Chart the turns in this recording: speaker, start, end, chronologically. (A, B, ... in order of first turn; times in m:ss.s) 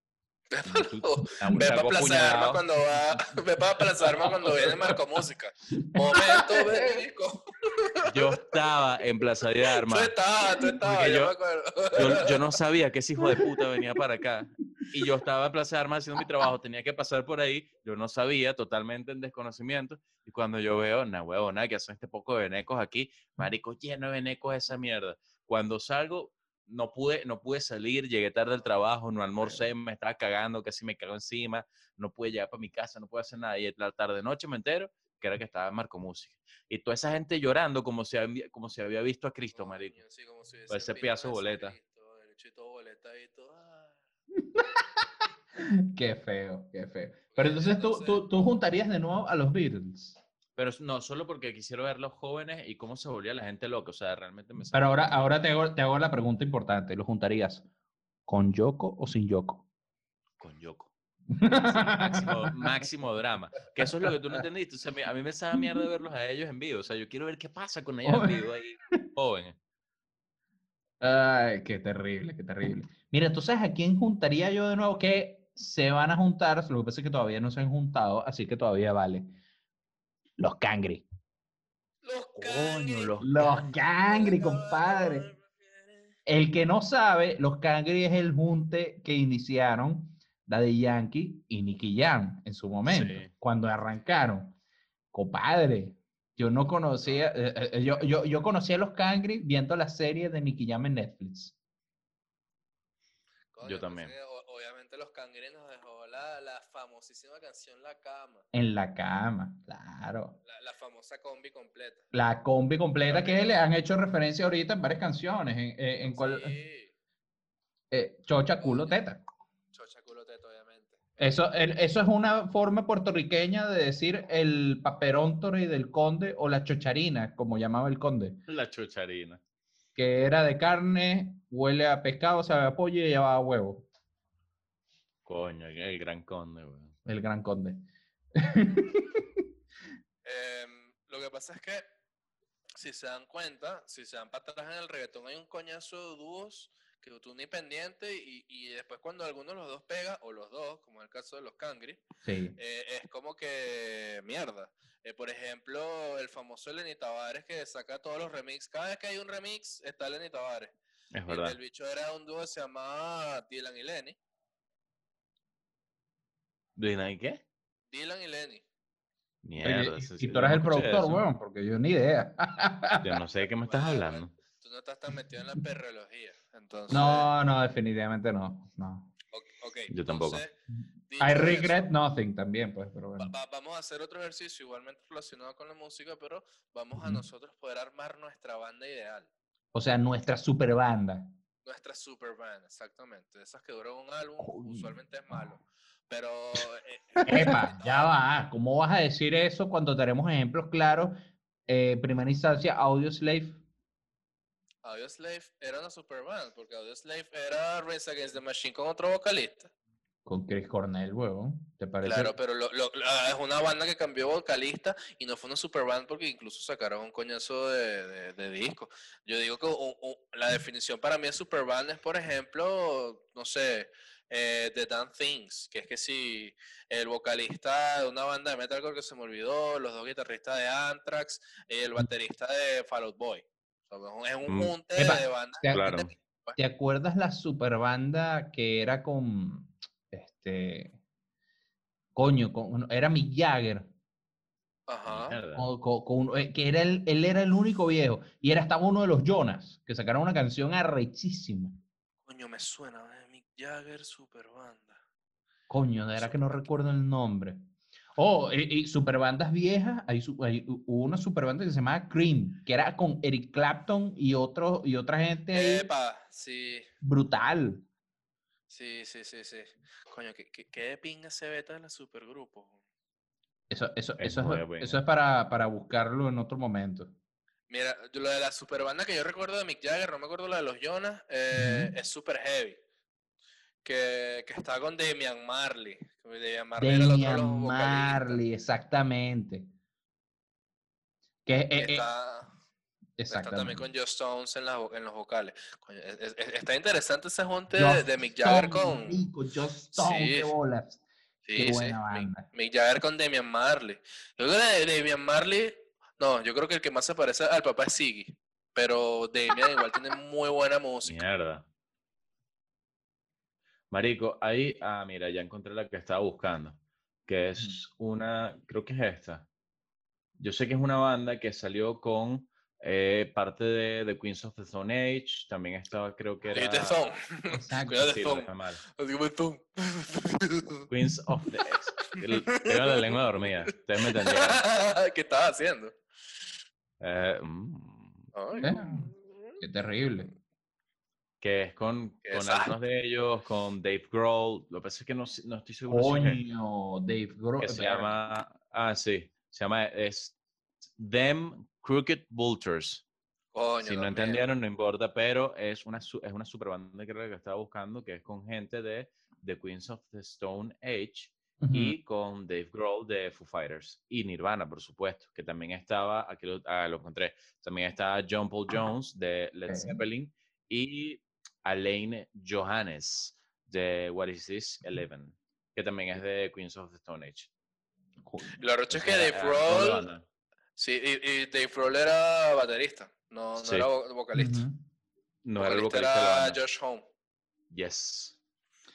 0:00.5-0:08.4 A
0:00.6-0:02.6 B
0:05.8-0:07.0 C
0:08.0-0:10.2 B
0:09.7-0:12.4 A
0:10.8-0:11.3 B
0:12.0-0:40.0 B
0:13.2-0:13.6 C
0:39.5-0:44.0 A
0:40.7-0:41.8 B
0:44.4-0:45.0 C
0:45.6-0:50.2 C
0:47.3-0:48.3 A
0:50.6-0:55.1 B
0:54.7-0:57.7 C
0:58.3-0:59.6 C
1:00.4-1:00.9 B
1:01.3-1:02.7 C
1:01.6-1:09.6 B
1:03.8-1:04.4 C
1:05.5-1:05.8 C
1:08.0-1:08.4 C
1:11.0-1:19.3 C
1:20.4-1:21.0 C
1:22.0-1:26.1 A
1:22.4-1:23.5 B
1:23.2-1:25.3 C
1:26.3-1:34.6 C
1:32.9-1:33.3 B
1:35.1-1:41.6 C
1:37.0-1:37.3 A
1:43.5-1:48.4 A
1:43.6-1:44.1 B
1:48.5-1:50.4 C
1:50.4-1:52.0 A
1:52.1-1:56.6 C
1:53.1-1:53.6 A
1:56.1-1:56.9 A
1:57.9-1:59.2 C
1:58.6-1:59.0 A
1:59.7-2:01.4 A
2:01.2-2:08.4 C
2:08.5-2:09.4 B
2:10.0-2:13.9 C
2:15.3-2:16.9 B
2:17.1-2:17.8 C
2:18.4-2:19.4 C
2:20.2-2:21.8 A
2:22.8-2:32.0 A
2:32.2-2:32.6 C
2:32.6-2:40.7 A
2:41.1-2:41.6 B
2:41.3-2:44.2 A
2:46.8-2:47.4 B
2:47.9-2:48.6 A
2:49.4-2:51.2 B
2:49.6-2:53.2 C
2:53.0-2:54.3 B
2:53.6-2:57.3 A
2:56.9-2:59.1 C
2:59.3-3:00.6 A
2:59.9-3:00.4 B
3:01.1-3:01.9 A
3:01.2-3:03.3 C
3:03.2-3:09.3 A
3:07.0-3:07.2 C
3:09.7-3:11.3 C
3:11.6-3:18.1 A
3:14.4-3:14.9 C
3:17.2-3:21.2 C
3:21.7-3:23.6 C
3:24.8-3:29.7 A
3:30.3-3:32.4 C
3:32.0-3:56.6 A
3:54.5-3:54.8 B
3:55.0-3:55.9 C
3:55.7-3:56.1 B
3:56.6-4:01.0 C
4:02.2-4:03.9 C
4:04.9-4:05.4 A
4:05.1-4:05.7 B
4:05.6-4:11.8 C
4:12.2-4:15.0 A
4:15.7-4:17.6 C
4:16.2-4:16.7 A
4:18.2-4:25.9 C
4:25.5-4:26.9 A
4:27.0-4:27.8 C
4:28.7-4:32.8 A
4:33.7-4:37.1 C
4:34.2-4:35.0 B
4:37.7-4:42.8 A
4:41.5-4:41.9 C
4:43.8-4:48.4 A
4:46.8-4:49.7 C
4:51.5-4:52.1 C
4:51.8-4:52.5 A
4:53.2-4:53.8 C
4:53.3-4:59.2 A
4:57.7-5:01.0 C
4:59.9-5:00.5 A
5:01.4-5:11.2 A
5:01.6-5:02.5 C
5:11.0-5:11.7 B
5:13.9-5:19.5 B
5:20.4-5:27.1 B
5:26.5-5:30.8 A
5:27.5-5:28.1 C
5:28.0-5:28.8 B
5:30.9-5:34.6 B
5:32.1-5:33.1 A
5:34.0-5:36.0 A
5:37.0-5:38.3 B
5:38.3-5:39.6 A
5:38.6-5:40.3 C
5:41.4-5:46.4 B
5:42.3-5:42.7 A
5:45.9-5:48.2 C
5:47.6-5:50.4 B
5:51.0-5:53.0 B
5:53.5-5:54.4 A
5:53.8-6:17.5 B
6:01.6-6:02.0 C
6:09.7-6:10.0 C
6:18.2-6:18.6 C
6:18.6-6:20.1 A
6:18.9-6:20.2 B
6:20.8-6:24.6 A
6:23.6-6:23.9 B
6:24.3-6:24.8 C
6:25.4-6:26.6 B
6:25.6-6:27.1 A
6:27.7-6:28.4 B